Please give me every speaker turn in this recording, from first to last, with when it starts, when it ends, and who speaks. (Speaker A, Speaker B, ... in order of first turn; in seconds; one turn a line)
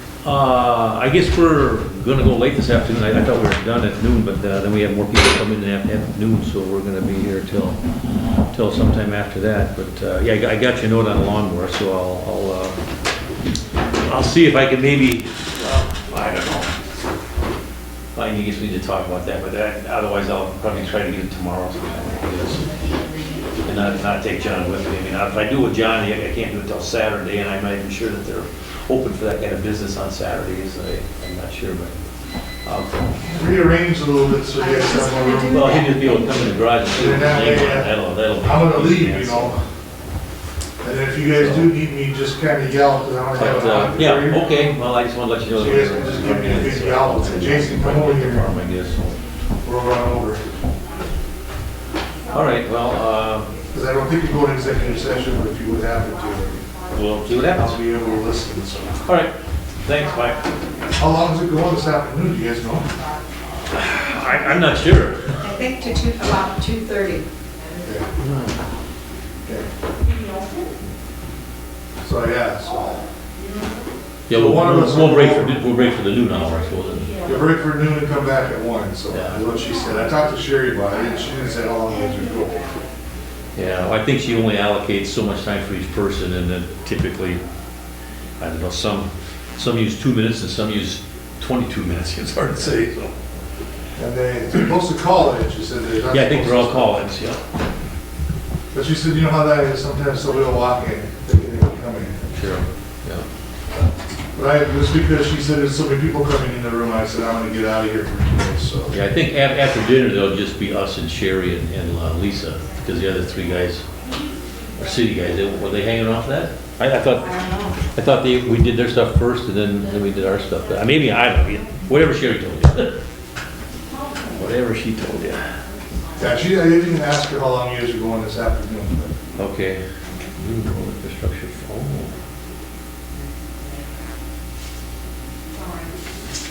Speaker A: 0.2-7.8
Speaker A: 8.5-12.8
Speaker A: 14.0-16.7
Speaker A: 18.1-22.7
Speaker A: 23.6-31.9
Speaker A: 32.6-33.3
Speaker B: 33.3-35.9
Speaker C: 34.6-36.4
Speaker A: 35.4-39.5
Speaker B: 36.9-39.6
Speaker B: 40.8-44.5
Speaker A: 41.4-41.8
Speaker A: 43.3-49.2
Speaker B: 45.5-48.5
Speaker B: 49.6-50.4
Speaker A: 52.3-53.5
Speaker B: 53.7-56.6
Speaker A: 56.9-57.8
Speaker B: 57.5-59.1
Speaker A: 59.0-59.3
Speaker A: 59.8-60.6
Speaker B: 61.0-62.9
Speaker A: 63.7-65.5
Speaker C: 65.4-67.2
Speaker B: 67.8-68.1
Speaker A: 68.2-68.6
Speaker B: 72.0-73.0
Speaker A: 74.3-77.2
Speaker B: 74.3-75.6
Speaker B: 77.2-82.8
Speaker A: 79.1-79.4
Speaker A: 83.6-87.4
Speaker A: 88.4-93.1
Speaker B: 94.0-96.9
Speaker A: 96.1-97.4
Speaker B: 98.7-102.2
Speaker A: 102.3-103.3
Speaker B: 104.3-109.0
Speaker A: 108.9-113.8
Speaker A: 114.8-123.0
Speaker C: 117.2-117.8
Speaker A: 124.3-125.5
Speaker B: 126.2-129.1
Speaker A: 129.4-129.8
Speaker A: 130.4-132.2